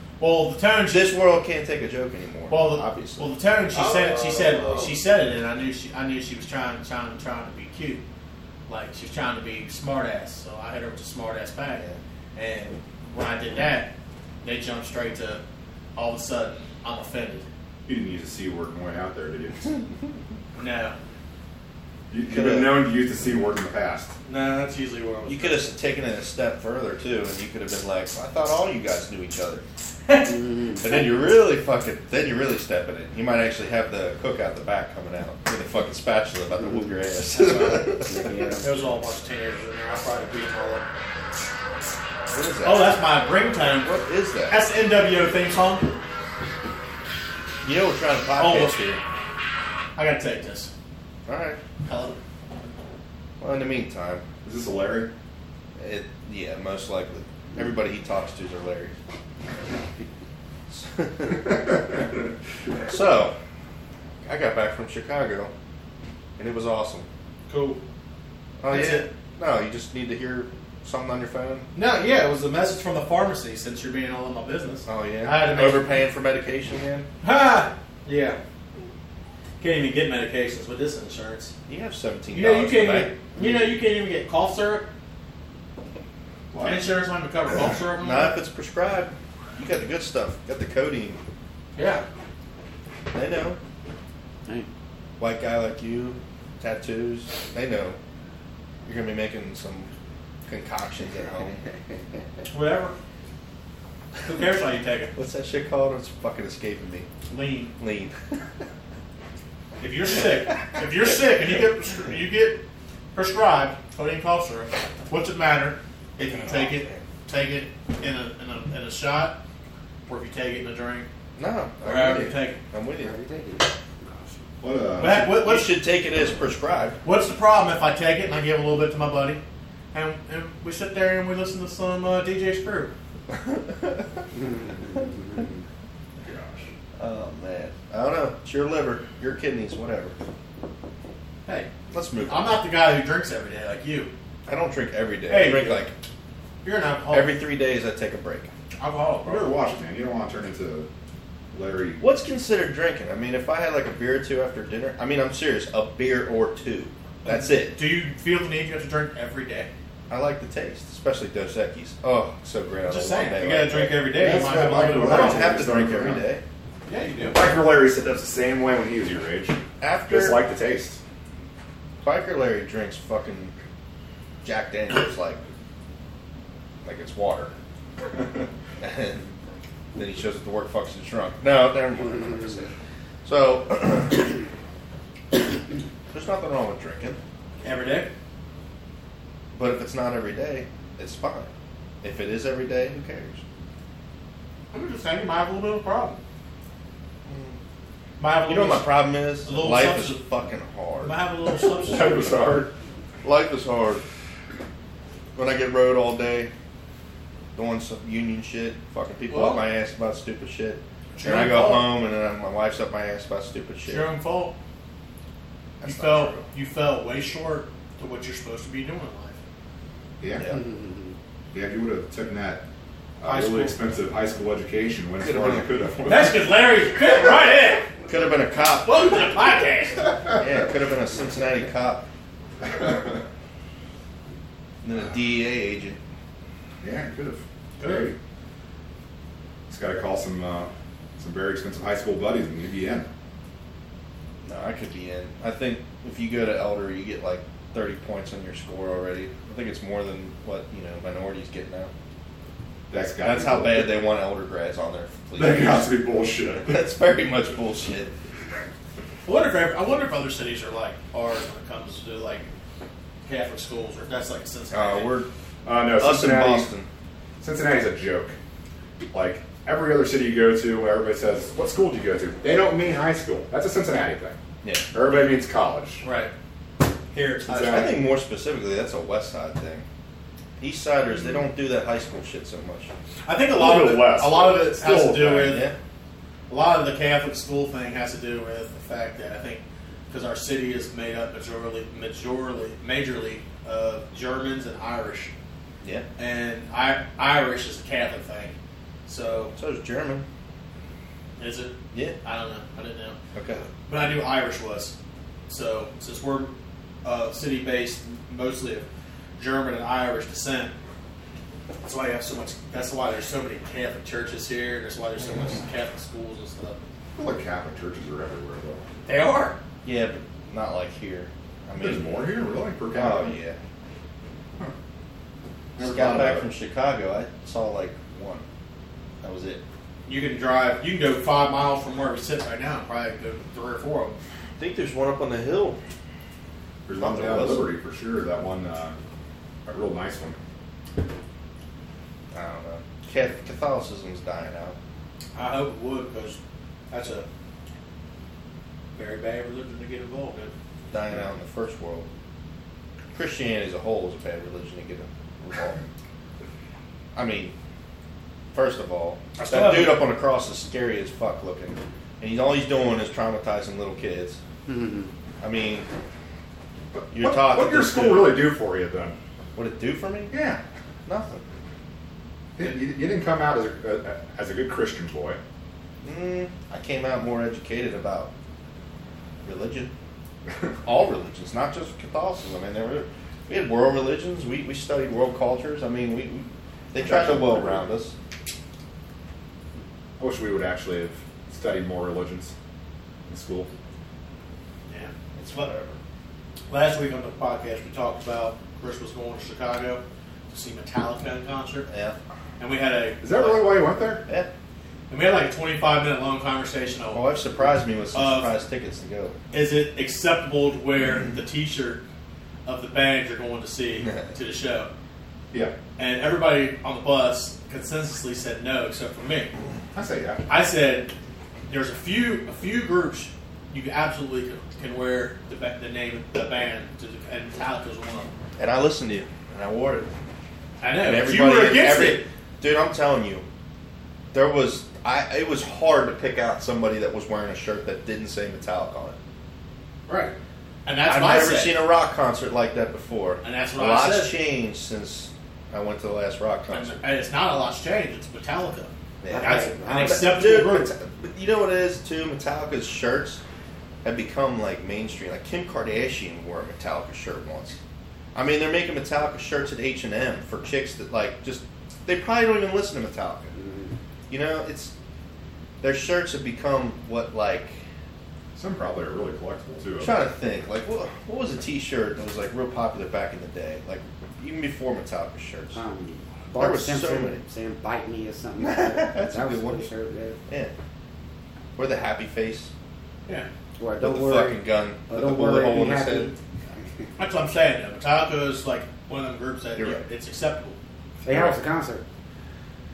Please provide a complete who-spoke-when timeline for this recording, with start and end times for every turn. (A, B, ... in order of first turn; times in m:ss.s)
0:00.2-0:01.1 A
0:00.9-0:05.0 B
0:02.5-0:08.0 A
0:08.7-0:11.8 A
0:12.3-0:13.9 A
0:14.4-0:15.4 A
0:16.0-0:17.4 A
0:17.8-0:19.7 C
0:20.6-0:20.9 A
0:22.1-0:24.1 C
0:22.3-0:22.8 B
0:24.3-0:25.7 A
0:25.3-0:29.6 B
0:30.1-0:30.3 A
0:30.3-0:30.8 D
0:30.8-0:38.4 B
0:37.4-0:37.8 A
0:38.0-0:38.6 D
0:38.6-0:40.8 A
0:42.3-0:43.0 B
0:42.6-0:44.0 A
0:43.8-0:44.6 B
0:44.5-0:45.9 A
0:47.6-0:49.0 B
0:48.4-0:48.8 A
0:50.0-0:50.7 A
0:51.3-0:51.6 B
0:51.8-0:52.2 A
0:53.4-0:54.2 B
0:54.4-0:55.1 C
0:55.8-0:58.9 B
1:00.7-1:01.8 B
1:02.8-1:03.3 B
1:04.2-1:05.5 B
1:06.4-1:07.0 B
1:07.5-1:07.8 A
1:08.6-1:11.7 B
1:08.7-1:09.1 A
1:11.7-1:15.8 A
1:14.8-1:17.1 B
1:17.2-1:18.4 A
1:19.6-1:21.5 A
1:21.7-1:23.1 B
1:22.3-1:24.9 A
1:26.5-1:26.9 C
1:26.6-1:28.4 A
1:28.0-1:31.2 B
1:31.8-1:32.0 A
1:33.1-1:33.6 B
1:35.2-1:38.0 B
1:38.8-1:39.9 B
1:40.4-1:41.6 B
1:42.5-1:42.9 A
1:44.2-1:45.1 A
1:45.1-1:47.1 B
1:47.3-1:47.7 A
1:47.8-1:48.4 B
1:49.8-1:59.4 A
1:56.2-1:57.0 B
2:00.1-2:01.1 A
2:01.4-2:03.1 B
2:01.8-2:02.6 A
2:03.0-2:04.3 D
2:04.6-2:05.4 C
2:05.0-2:05.8 A
2:05.2-2:07.0 B
2:07.0-2:09.4 A
2:09.9-2:12.9 A
2:13.3-2:14.2 B
2:16.2-2:16.6 C
2:17.0-2:20.1 B
2:21.9-2:22.6 B
2:22.3-2:24.1 A
2:24.5-2:25.9 B
2:25.3-2:25.8 A
2:26.6-2:27.3 A
2:27.1-2:28.5 B
2:28.8-2:29.5 A
2:29.2-2:30.9 C
2:31.5-2:32.0 C
2:32.0-2:37.8 B
2:37.2-2:39.7 A
2:40.1-2:44.0 B
2:42.9-2:45.5 A
2:44.1-2:46.3 C
2:44.7-2:46.4 B
2:46.9-2:47.4 A
2:47.3-2:51.0 C
2:49.8-2:50.4 B
2:52.0-2:53.5 B
2:54.4-2:55.4 B
2:56.8-2:57.5 B
2:58.2-2:58.4 C
2:58.8-2:59.4 B
2:59.9-3:02.7 B
3:03.2-3:04.4 B
3:06.1-3:07.2 B
3:07.6-3:08.1 A
3:09.5-3:11.5 B
3:12.0-3:13.4 B
3:14.7-3:16.2 A
3:17.2-3:17.6 B
3:18.2-3:20.2 A
3:18.4-3:21.1 B
3:21.0-3:22.5 A
3:21.7-3:22.7 C
3:23.2-3:24.0 B
3:25.3-3:26.5 B
3:27.5-3:34.1 B
3:29.3-3:29.6 A
3:31.2-3:31.9 A
3:33.9-3:34.5 A
3:35.8-3:36.4 B
3:35.8-3:39.4 A
3:40.2-3:40.4 C
3:40.4-3:40.6 B
3:40.5-3:41.1 D
3:41.5-3:42.6 C
3:43.2-3:46.5 C
3:43.2-3:43.8 A
3:45.2-3:45.7 B
3:46.0-3:47.9 A
3:48.1-3:49.0 B
3:48.8-3:50.1 A
3:50.4-3:52.0 B
3:52.6-3:53.2 C
3:54.8-3:56.0 B
3:56.8-3:58.2 C
3:57.8-3:58.1 A
3:59.7-4:03.1 C
4:04.4-4:11.9 B
4:12.9-4:14.0 C
4:13.2-4:15.9 B
4:15.4-4:16.9 C
4:16.6-4:18.1 B
4:19.2-4:22.4 A
4:23.2-4:25.1 A
4:24.7-4:25.3 B
4:25.6-4:26.7 C
4:26.0-4:26.9 B
4:27.4-4:28.3 C
4:29.1-4:34.4 C
4:34.6-4:34.9 B
4:34.9-4:36.0 C
4:36.0-4:36.3 A
4:37.1-4:37.9 A
4:37.4-4:38.0 C
4:37.5-4:39.8 B
4:40.6-4:42.9 B
4:43.2-4:45.7 A
4:43.5-4:45.6 C
4:45.4-4:45.7 B
4:46.5-4:55.3 A
4:56.2-4:58.5 A
4:59.1-4:59.5 A
4:59.6-5:00.2 B
5:01.4-5:03.2 A
5:03.3-5:03.6 B
5:03.9-5:04.9 A
5:05.5-5:06.5 A
5:07.0-5:08.8 A
5:09.4-5:10.7 A
5:11.8-5:16.8 A
5:17.2-5:18.8 C
5:19.0-5:19.6 A
5:19.8-5:22.3 B
5:21.8-5:23.4 C
5:22.9-5:23.6 B
5:25.8-5:26.5 C
5:25.8-5:28.4 B
5:29.2-5:29.6 B
5:30.0-5:34.2 A
5:34.6-5:35.8 B
5:36.8-5:39.0 C
5:37.0-5:37.6 B
5:39.6-5:40.4 C
5:42.3-5:44.8 B
5:45.3-5:46.4 A
5:46.9-5:47.2 A
5:48.9-5:50.5 A
5:50.9-5:52.0 B
5:53.1-5:55.8 B
5:57.1-5:57.5 B
5:58.5-6:04.4 B
5:59.4-6:00.1 A
6:04.7-6:05.1 D
6:05.4-6:05.9 B
6:06.9-6:09.2 C
6:07.1-6:08.5 B
6:09.5-6:10.3 B
6:10.3-6:10.6 C
6:11.0-6:11.4 B
6:12.6-6:15.4 C
6:16.0-6:18.3 B
6:19.4-6:19.9 B
6:20.8-6:28.1 B
6:27.0-6:27.9 C
6:30.2-6:32.5 C
6:33.3-6:33.7 C
6:34.9-6:35.7 A
6:35.4-6:36.0 B
6:36.7-6:41.9 A
6:41.9-6:42.2 B
6:42.6-6:43.7 A
6:43.2-6:44.2 C
6:45.1-6:47.2 A
6:47.1-6:49.4 B
6:48.1-6:48.5 A
6:49.5-6:52.0 A
6:52.6-6:54.9 A
6:56.0-6:59.5 A
6:59.9-7:00.4 C
7:00.5-7:01.1 A
7:01.7-7:08.3 A
7:08.6-7:10.1 B
7:10.8-7:12.2 A
7:11.0-7:13.4 B
7:14.3-7:19.2 B
7:20.1-7:20.3 A
7:20.8-7:21.8 A
7:21.0-7:27.0 B
7:23.4-7:24.4 A
7:26.7-7:30.9 A
7:29.2-7:33.4 B
7:29.3-7:30.3 D
7:34.0-7:37.8 B
7:38.3-7:43.5 B
7:43.6-7:43.9 D
7:44.3-7:44.9 B
7:45.8-7:47.8 B
7:48.5-7:50.2 C
7:50.0-7:55.8 B
7:55.7-8:00.4 D
7:56.6-7:57.4 B
7:58.6-7:59.9 B
8:00.5-8:00.7 B
8:01.8-8:02.7 B
8:03.8-8:06.3 D
8:04.0-8:06.3 B
8:07.2-8:10.8 A
8:09.8-8:10.0 B
8:11.2-8:12.0 D
8:11.2-8:11.6 B